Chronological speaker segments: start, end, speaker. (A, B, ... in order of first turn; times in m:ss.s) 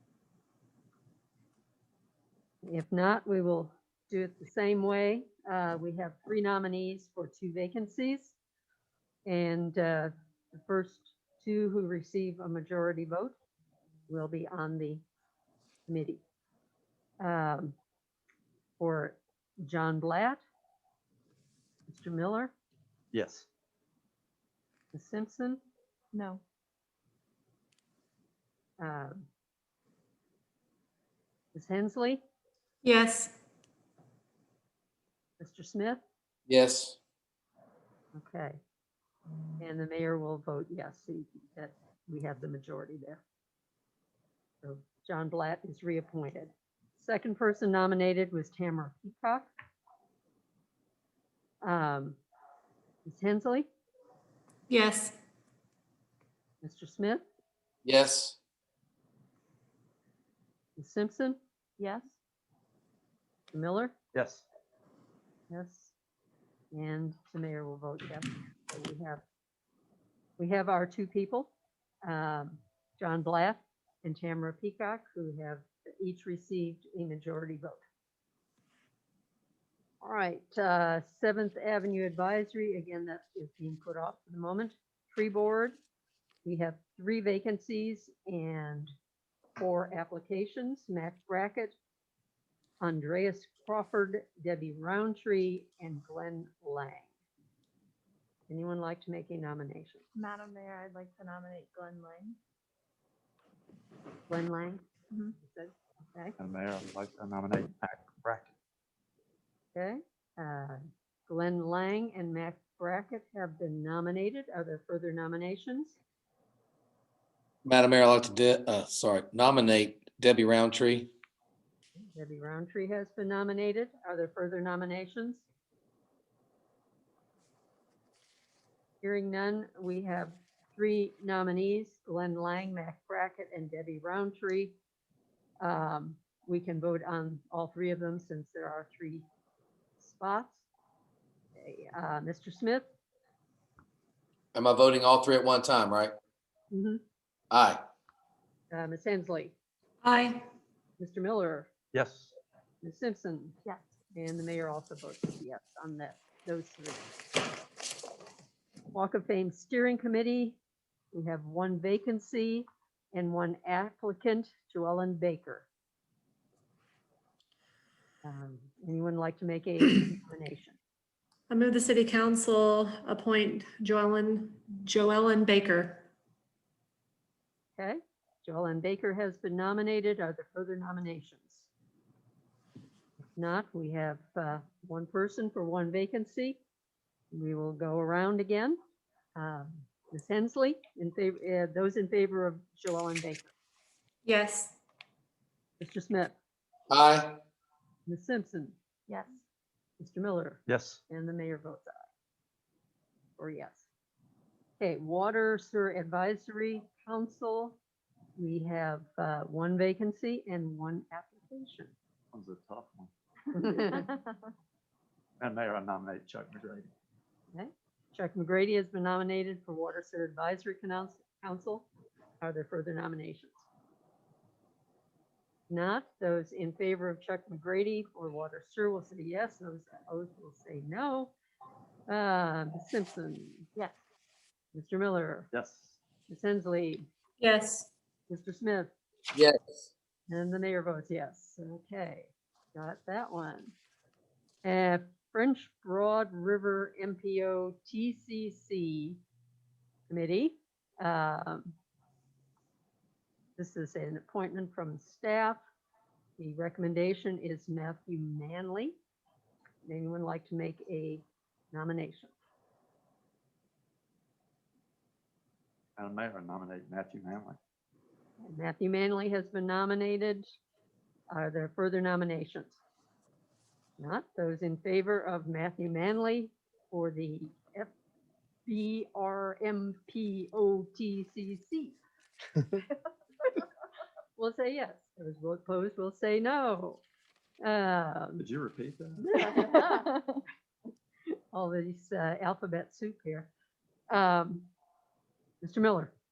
0:02.6-0:08.4 A
0:09.2-0:13.3 A
0:14.1-0:15.0 A
0:15.9-0:16.2 A
0:17.2-0:17.7 A
0:18.8-0:20.4 A
0:21.9-0:22.5 A
0:23.1-0:23.5 B
0:24.9-0:25.6 A
0:26.1-0:26.4 C
0:28.8-0:29.3 A
0:31.5-0:32.2 A
0:32.8-0:33.3 D
0:35.4-0:36.0 A
0:36.5-0:37.0 E
0:38.1-0:38.6 A
0:39.6-0:43.2 A
0:44.6-0:49.5 A
0:51.6-0:52.2 A
0:53.0-0:53.7 A
0:54.7-0:55.1 D
0:56.6-0:57.2 A
0:57.8-0:58.4 E
1:00.8-1:01.4 A
1:01.8-1:02.2 C
1:03.5-1:03.9 A
1:04.1-1:04.4 B
1:05.5-1:05.9 A
1:06.7-1:09.2 A
1:10.4-1:11.5 A
1:12.0-1:17.8 A
1:20.0-1:25.8 A
1:26.4-1:28.9 A
1:29.6-1:31.7 A
1:32.8-1:37.1 A
1:38.5-1:40.0 A
1:40.1-1:42.4 C
1:44.3-1:44.8 A
1:45.4-1:46.4 A
1:46.4-1:48.5 B
1:49.7-1:56.0 A
1:57.6-2:01.1 E
2:02.1-2:05.4 A
2:09.0-2:14.8 A
2:15.6-2:19.3 A
2:20.0-2:20.6 A
2:21.6-2:22.9 A
2:24.5-2:26.1 E
2:26.7-2:27.0 A
2:27.5-2:27.8 E
2:28.7-2:29.6 A
2:30.0-2:30.4 D
2:31.0-2:31.7 A
2:31.9-2:32.3 B
2:32.8-2:33.5 A
2:34.1-2:37.0 A
2:38.9-2:40.6 A
2:41.1-2:45.7 A
2:48.2-2:50.8 A
2:51.5-2:56.0 D
2:57.8-3:01.7 A
3:03.3-3:06.6 A
3:07.3-3:08.8 A
3:09.4-3:13.5 A
3:14.2-3:14.7 D
3:15.8-3:16.3 A
3:16.9-3:17.4 E
3:18.0-3:18.7 A
3:19.1-3:19.4 C
3:20.0-3:22.1 A
3:20.7-3:21.0 B
3:23.4-3:23.9 A
3:24.8-3:27.8 A
3:28.4-3:31.9 A
3:32.3-3:33.1 B
3:33.5-3:34.1 A
3:35.4-3:36.9 B
3:37.5-3:41.9 A
3:42.4-3:43.6 A
3:45.7-3:51.3 A
3:52.1-3:53.7 A
3:54.7-3:55.5 A
3:55.5-3:56.0 B
3:56.3-3:57.1 A
3:57.4-3:57.9 D
3:58.3-3:58.9 A
3:59.3-3:59.9 E
4:00.3-4:03.7 A
4:04.6-4:09.2 A
4:10.1-4:11.7 A
4:13.6-4:15.6 A
4:16.4-4:19.0 A
4:19.8-4:22.3 A
4:26.0-4:27.6 B
4:28.4-4:30.5 A
4:31.3-4:32.8 A
4:34.0-4:37.9 A
4:38.6-4:42.0 A
4:44.4-4:47.0 A
4:47.6-4:48.4 A
4:48.4-4:49.3 B
4:49.2-4:50.3 A
4:51.5-4:53.5 A
4:54.1-4:54.7 A
4:55.6-4:56.1 A